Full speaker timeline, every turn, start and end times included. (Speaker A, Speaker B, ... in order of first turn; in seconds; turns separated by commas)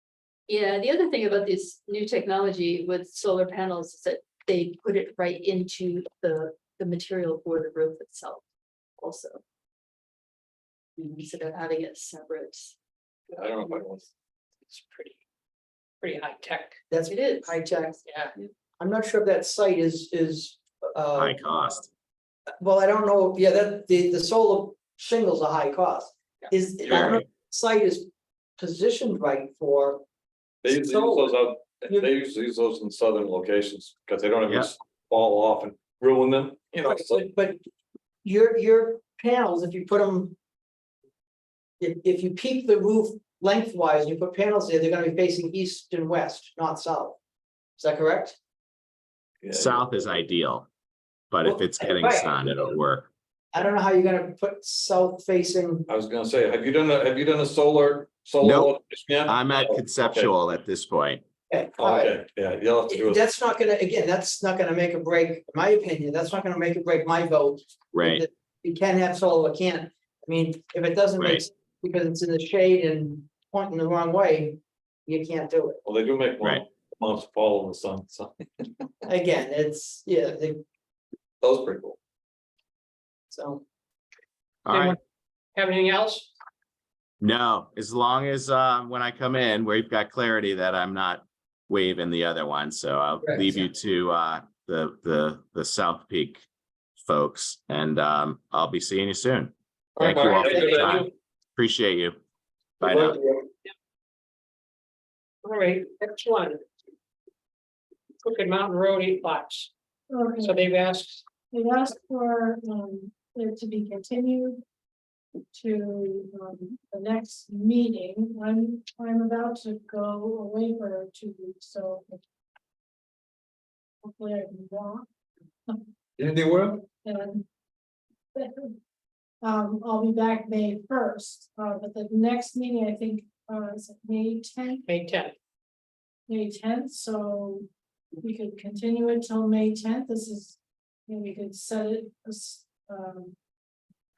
Speaker A: 0.5-8.4, Speaker A: 9.0-9.4, Speaker A: 11.0-12.7, Speaker B: 13.3-14.1, Speaker C: 14.7-15.2, Speaker C: 16.0-16.8, Speaker D: 16.9-18.0, Speaker A: 17.1-17.6, Speaker C: 18.0-18.3, Speaker D: 18.8-21.4, Speaker E: 21.2-21.9, Speaker D: 22.6-30.0, Speaker E: 26.8-27.2, Speaker B: 30.6-37.2, Speaker D: 30.7-32.1, Speaker D: 36.8-37.6, Speaker D: 38.2-40.3, Speaker D: 41.8-47.2, Speaker D: 47.8-48.4, Speaker B: 49.4-49.8, Speaker E: 49.5-50.7, Speaker E: 51.3-53.1, Speaker D: 51.4-52.6, Speaker D: 53.5-55.9, Speaker B: 55.9-60.3, Speaker E: 58.4-61.2, Speaker D: 61.5-62.2, Speaker B: 61.8-63.2, Speaker D: 62.9-75.8, Speaker E: 67.9-68.2, Speaker E: 71.2-71.5, Speaker B: 75.8-78.9, Speaker D: 79.1-80.6, Speaker B: 81.4-82.0, Speaker D: 83.3-83.6, Speaker E: 84.6-85.0, Speaker C: 84.7-85.0, Speaker C: 85.5-86.3, Speaker E: 87.2-96.4, Speaker D: 93.2-93.7, Speaker E: 97.0-102.2, Speaker B: 100.0-101.1, Speaker E: 102.8-103.2, Speaker D: 102.9-103.3, Speaker C: 105.4-106.6, Speaker C: 108.2-109.7, Speaker F: 110.1-110.7, Speaker C: 110.4-111.2, Speaker F: 111.5-114.6, Speaker F: 115.5-122.2, Speaker F: 124.0-125.0, Speaker B: 126.2-126.8, Speaker F: 126.8-127.4, Speaker F: 128.3-128.8, Speaker F: 129.4-134.8, Speaker C: 134.9-135.3, Speaker F: 136.3-137.7, Speaker F: 138.2-143.3